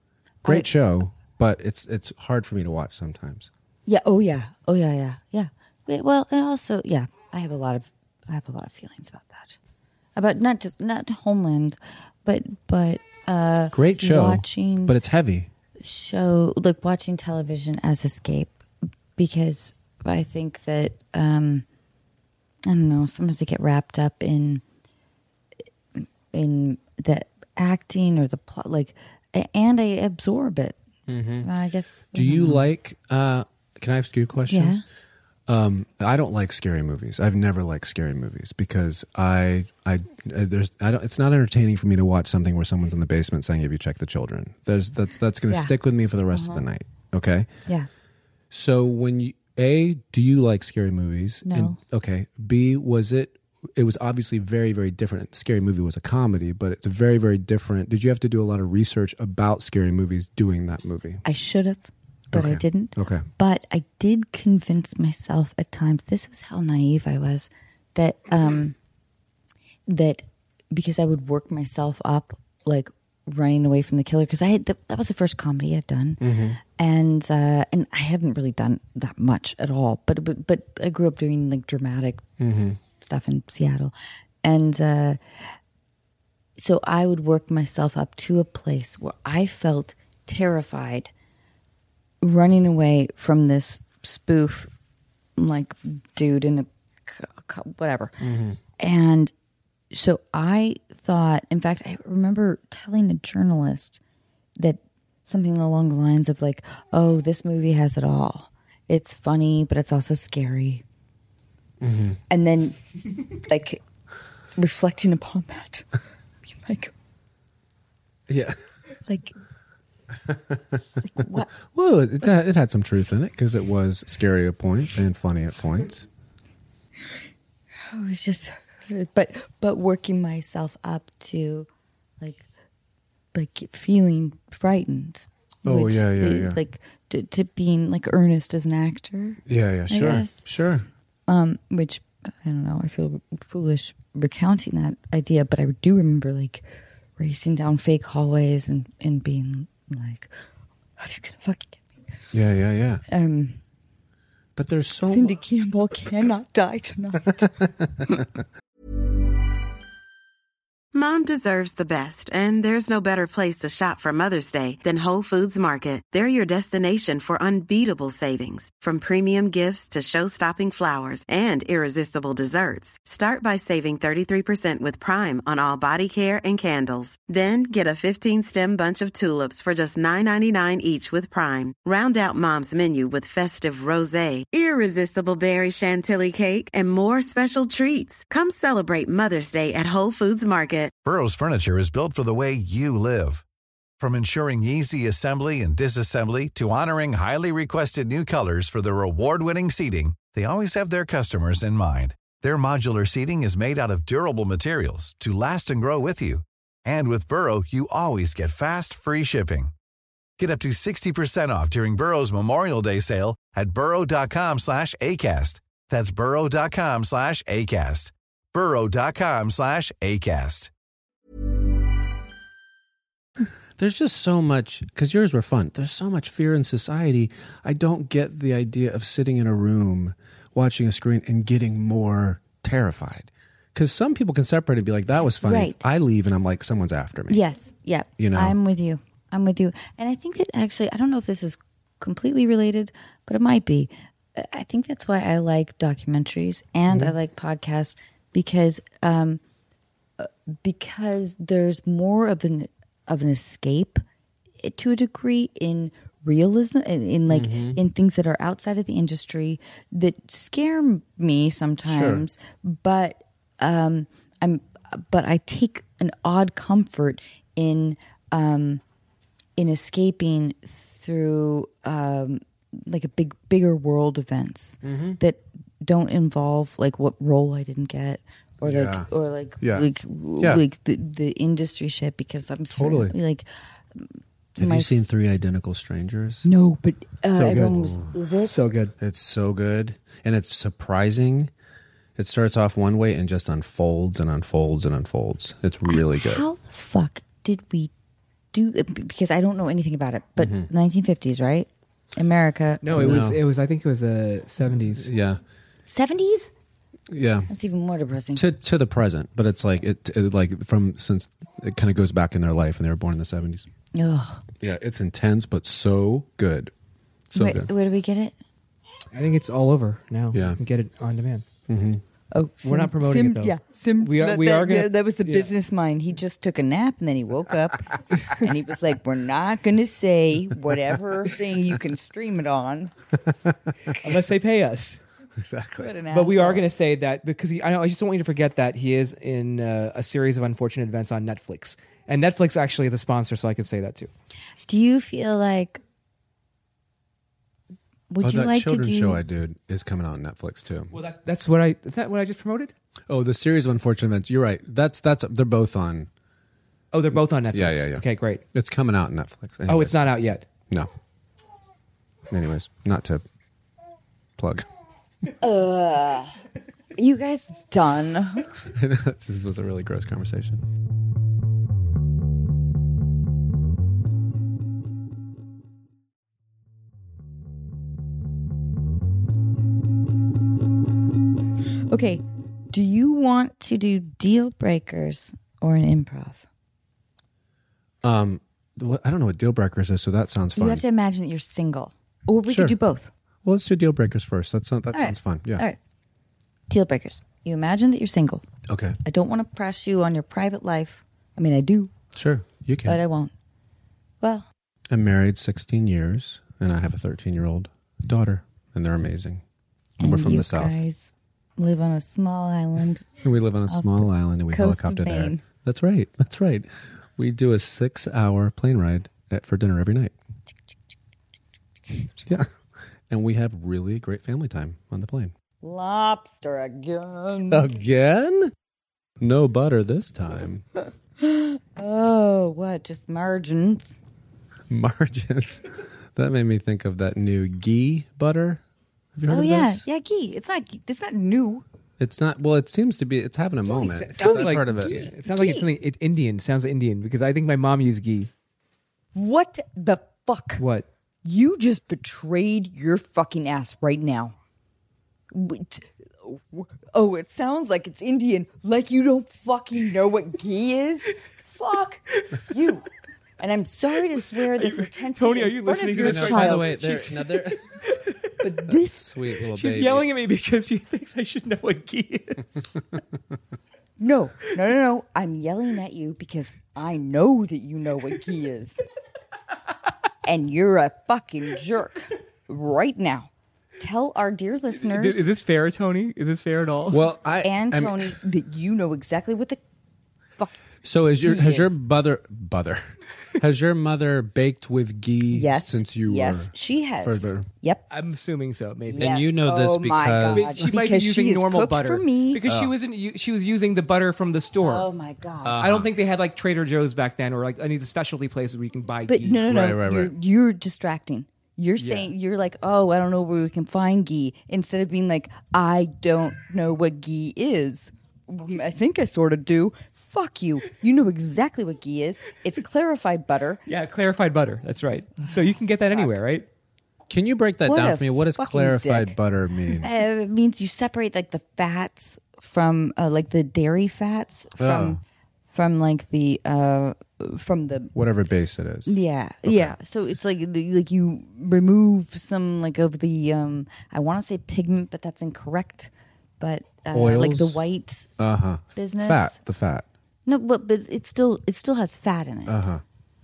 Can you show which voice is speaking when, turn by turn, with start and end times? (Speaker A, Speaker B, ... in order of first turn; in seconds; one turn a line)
Speaker A: 0.4-0.7
Speaker B: 0.4-3.5
Speaker A: 3.9-9.6
Speaker A: 10.2-14.9
Speaker B: 13.7-15.5
Speaker A: 15.8-18.6
Speaker A: 19.2-21.6
Speaker A: 22.6-24.6
Speaker A: 26.0-30.8
Speaker B: 31.1-31.5
Speaker A: 31.4-32.6
Speaker B: 32.1-34.8
Speaker A: 34.5-34.8
Speaker B: 35.5-47.5
Speaker A: 45.5-45.7
Speaker A: 46.3-46.6
Speaker B: 48.5-61.2
Speaker A: 51.5-51.8
Speaker A: 61.2-68.7
Speaker B: 62.3-63.2
Speaker A: 69.9-82.2
Speaker B: 76.2-76.6
Speaker B: 82.4-82.8
Speaker A: 83.0-85.5
Speaker A: 86.6-91.1
Speaker A: 92.2-94.7
Speaker A: 95.4-98.2
Speaker B: 98.2-98.6
Speaker A: 98.8-99.3
Speaker A: 99.9-104.0
Speaker A: 104.6-110.8
Speaker B: 111.8-112.2
Speaker A: 112.3-112.8
Speaker A: 113.3-113.8
Speaker A: 114.5-115.9
Speaker A: 116.5-116.9
Speaker B: 118.3-118.6
Speaker A: 119.1-119.3
Speaker B: 120.2-126.1
Speaker A: 121.1-121.5
Speaker A: 127.9-131.7
Speaker A: 133.3-140.4
Speaker B: 135.6-136.6
Speaker B: 139.4-140.9
Speaker A: 141.3-146.6
Speaker A: 147.2-150.3
Speaker A: 151.0-151.8
Speaker B: 152.3-153.0
Speaker A: 153.1-153.6
Speaker B: 154.6-155.4
Speaker A: 155.0-157.5
Speaker C: 160.9-190.9
Speaker D: 191.0-193.4
Speaker D: 194.0-209.7
Speaker D: 210.4-220.7
Speaker B: 223.8-237.4
Speaker A: 235.4-235.8
Speaker A: 237.3-249.4
Speaker B: 238.2-238.6
Speaker A: 250.2-254.0
Speaker A: 254.6-268.8
Speaker B: 257.3-257.8
Speaker B: 261.9-262.2
Speaker A: 269.6-284.9
Speaker B: 274.8-275.2
Speaker B: 278.6-279.1
Speaker B: 279.6-279.9
Speaker B: 282.7-283.2
Speaker B: 284.6-286.4
Speaker A: 286.4-288.6
Speaker E: 287.3-287.7
Speaker B: 287.3-288.1
Speaker E: 288.4-288.9
Speaker B: 289.0-291.5
Speaker B: 292.1-296.4
Speaker A: 295.9-297.9
Speaker A: 298.5-303.2
Speaker B: 300.4-300.7
Speaker E: 302.8-305.1
Speaker B: 302.9-303.4
Speaker B: 304.9-305.4
Speaker A: 305.9-306.5
Speaker B: 307.1-307.5
Speaker A: 307.5-308.4
Speaker B: 308.3-313.7
Speaker A: 313.9-314.4
Speaker B: 314.6-316.7
Speaker B: 317.3-317.7
Speaker A: 317.3-318.4
Speaker E: 319.1-321.4
Speaker B: 320.3-320.6
Speaker B: 321.7-322.0
Speaker A: 322.3-332.9
Speaker E: 322.6-325.5
Speaker B: 333.3-333.9
Speaker E: 334.0-335.0
Speaker B: 335.4-335.9
Speaker A: 335.8-336.6
Speaker E: 336.1-344.1
Speaker A: 344.7-345.8
Speaker A: 348.1-349.2
Speaker B: 348.2-350.9
Speaker E: 350.9-352.7
Speaker B: 353.1-356.1
Speaker E: 356.9-358.4
Speaker B: 357.5-360.0
Speaker E: 359.7-360.4
Speaker B: 362.3-363.2
Speaker B: 364.4-364.7
Speaker A: 365.4-366.3
Speaker A: 366.9-368.5
Speaker B: 368.6-370.6
Speaker A: 381.9-386.4
Speaker B: 388.0-390.8
Speaker A: 390.6-393.1
Speaker B: 392.5-392.8
Speaker B: 393.4-395.6
Speaker A: 394.9-395.8
Speaker A: 396.7-398.4
Speaker B: 398.7-399.0
Speaker A: 399.1-401.9
Speaker B: 402.1-403.0
Speaker A: 402.8-403.3
Speaker A: 404.2-404.5
Speaker B: 404.9-409.4
Speaker A: 410.0-413.1
Speaker B: 410.0-410.8
Speaker B: 413.2-420.1
Speaker A: 413.7-415.4
Speaker B: 423.1-425.3
Speaker A: 425.6-427.7
Speaker B: 427.5-428.5
Speaker B: 429.2-430.6
Speaker A: 431.2-433.9
Speaker B: 434.7-438.6
Speaker B: 439.1-439.8
Speaker A: 439.3-441.6
Speaker B: 442.0-445.1
Speaker E: 443.7-448.3
Speaker A: 444.1-445.7
Speaker A: 449.1-450.6
Speaker E: 450.6-450.9
Speaker A: 451.2-454.3
Speaker A: 455.3-462.9
Speaker A: 463.4-466.9
Speaker E: 464.4-468.3
Speaker B: 466.0-467.6
Speaker A: 468.4-469.1
Speaker B: 468.6-470.1
Speaker E: 469.5-472.7
Speaker A: 474.0-478.8
Speaker A: 480.2-485.3
Speaker E: 484.8-487.1
Speaker B: 486.9-488.2
Speaker A: 487.4-489.6
Speaker B: 490.8-497.5
Speaker A: 491.2-491.7
Speaker A: 495.3-497.8
Speaker E: 497.9-499.1
Speaker B: 498.9-500.7
Speaker A: 498.9-502.4
Speaker E: 500.3-504.9
Speaker B: 502.4-502.7
Speaker A: 504.6-505.6
Speaker B: 505.4-505.9
Speaker E: 505.6-509.5
Speaker A: 509.1-523.6
Speaker B: 509.4-510.1
Speaker E: 523.7-526.5
Speaker B: 527.1-529.9
Speaker A: 527.6-529.2
Speaker A: 529.7-535.0
Speaker B: 534.6-535.0
Speaker A: 535.5-538.0
Speaker B: 538.0-539.7
Speaker A: 538.9-548.1
Speaker B: 546.9-547.6
Speaker B: 548.2-549.9
Speaker A: 548.7-549.4
Speaker A: 550.3-552.7
Speaker B: 552.5-552.8